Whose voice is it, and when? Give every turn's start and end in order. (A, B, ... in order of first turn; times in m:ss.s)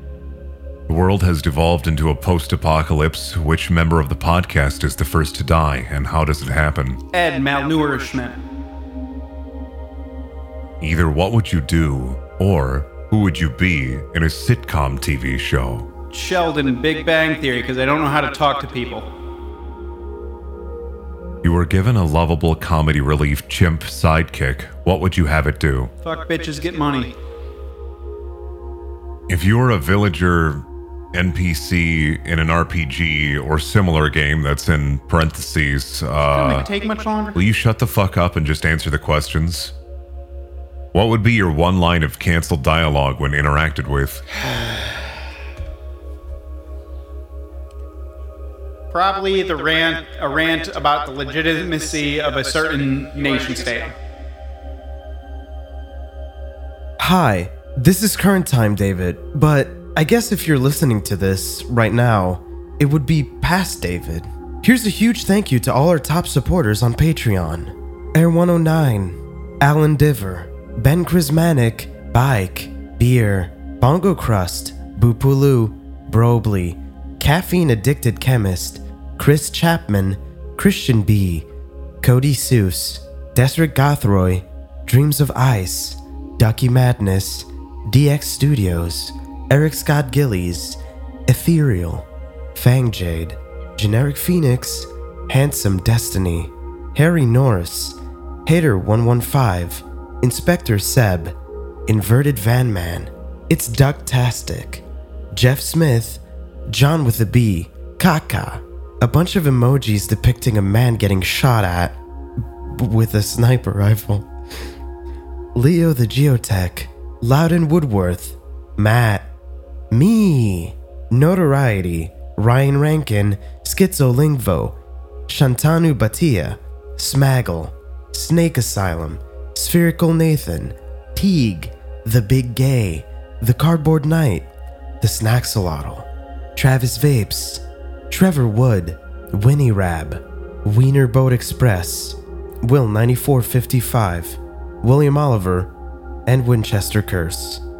0:00.9-0:07.0 A
0:07.1-0:08.4 B
0:10.8-0:15.9 A
0:16.1-0:19.1 B
0:21.4-0:25.9 A
0:26.0-0:27.2 B
0:29.3-0:36.7 A
0:36.2-0:37.4 B
0:37.3-0:39.7 A
0:40.9-0:44.2 A
0:44.5-0:44.9 B
0:48.9-0:53.9 B
0:57.0-1:21.5 C
1:22.0-1:41.3 C
1:41.9-1:52.0 C
1:52.7-1:54.3 C
1:55.5-1:59.3 C
1:59.9-2:04.7 C
2:05.3-2:14.5 C
2:15.0-2:25.7 C
2:26.2-2:27.6 C